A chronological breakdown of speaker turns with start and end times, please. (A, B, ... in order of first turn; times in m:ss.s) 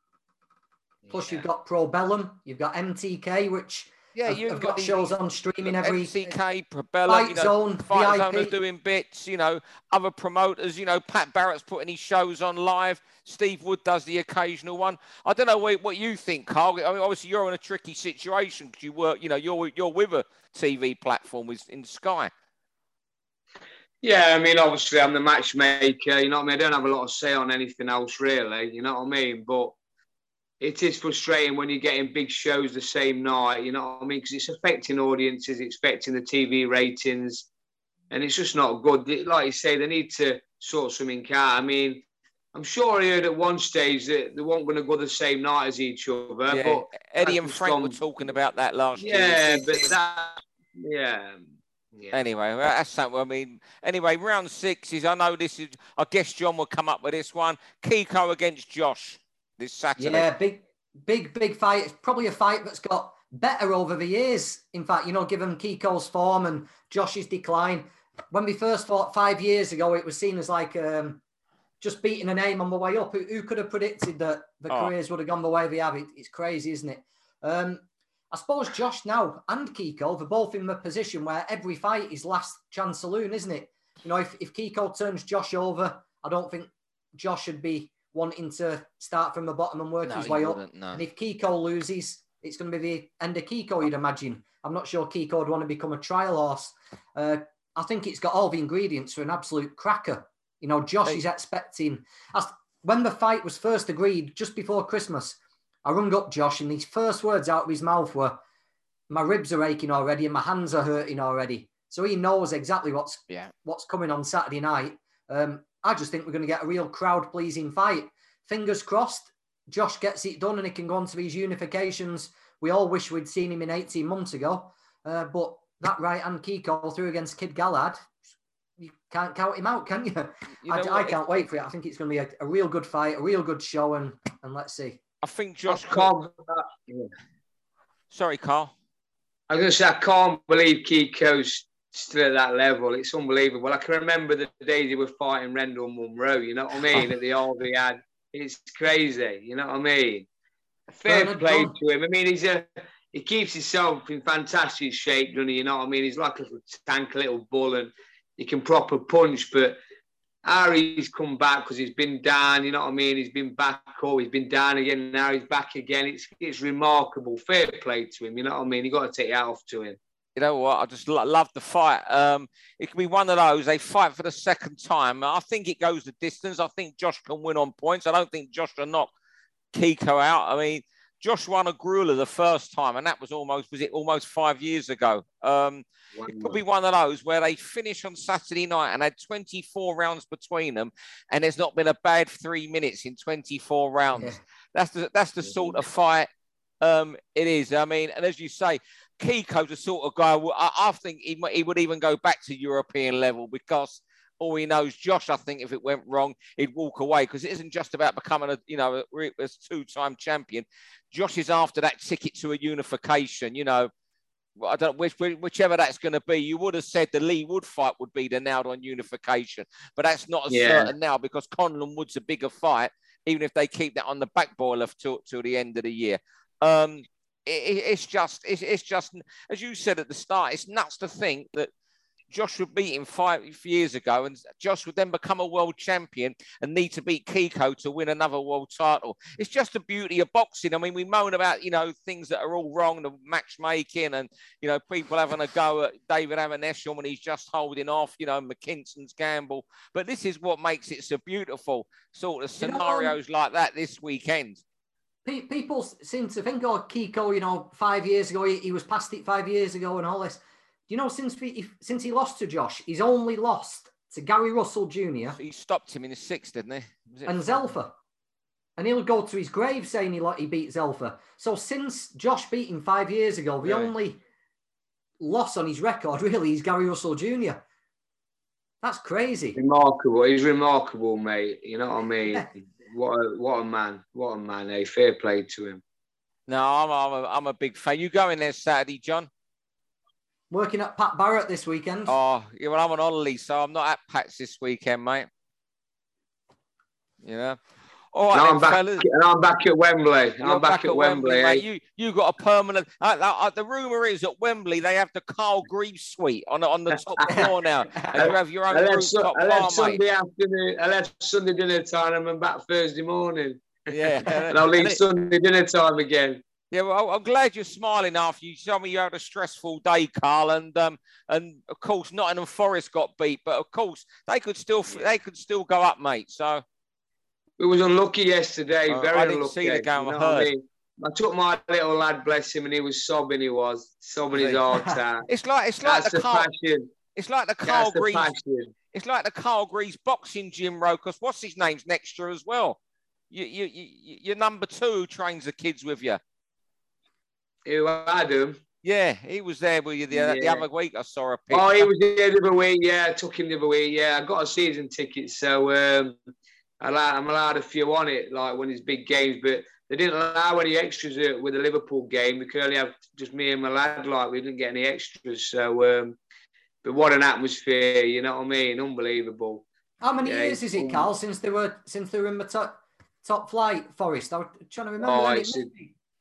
0:01.1-0:06.3 A
0:04.1-0:05.1 B
0:05.6-0:22.3 B
0:07.1-0:08.6 A
0:24.0-0:29.7 C
0:30.6-0:37.5 C
0:38.1-0:48.0 C
0:46.5-0:49.9 B
0:49.0-0:52.2 C
0:52.1-1:00.2 B
1:00.0-1:11.2 A
1:11.8-1:48.4 A
1:30.0-1:31.0 B
1:49.1-2:08.1 A
2:08.8-2:15.0 A
2:10.6-2:11.4 B
2:15.2-2:16.1 B
2:15.7-2:17.1 C
2:18.1-2:18.7 B
2:19.5-2:30.3 C
2:30.9-2:39.8 C
2:31.0-2:31.7 A
2:40.4-2:50.0 C
2:50.4-2:59.1 B
2:59.7-3:16.3 B
3:06.1-3:06.6 C
3:14.1-3:14.4 A
3:16.8-3:33.9 B
3:34.6-3:51.7 B
3:40.5-3:40.9 C
3:52.3-4:14.6 B
4:12.6-4:13.2 A
4:15.2-4:25.4 A
4:25.4-4:27.7 B
4:27.2-4:27.9 A
4:28.8-4:34.2 A
4:33.6-4:33.9 B
4:35.2-4:37.6 A
4:38.8-4:39.6 A
4:39.6-4:45.8 C
4:46.5-4:49.3 B
4:50.5-4:52.1 A
4:52.1-4:55.3 B
4:57.2-4:57.6 B
4:58.1-4:59.0 B
4:58.3-5:01.6 C
5:00.4-5:10.0 B
5:07.3-5:08.1 A
5:08.2-5:16.4 C
5:13.9-5:15.0 B
5:16.7-5:26.6 B
5:24.9-5:25.2 C
5:27.6-5:35.3 C
5:28.9-5:30.5 B
5:34.3-5:34.6 B
5:34.7-5:35.0 A
5:35.3-5:36.5 B
5:35.8-5:36.9 C
5:37.1-5:38.3 B
5:37.6-5:38.7 C
5:38.9-5:42.8 B
5:43.3-5:46.2 B
5:47.6-5:48.6 C
5:48.8-5:51.9 B
5:50.1-5:50.6 C
5:51.5-5:56.2 C
5:56.8-6:06.2 C
6:06.8-6:09.6 C
6:10.0-6:15.9 A
6:10.2-6:11.1 C
6:15.0-6:15.7 C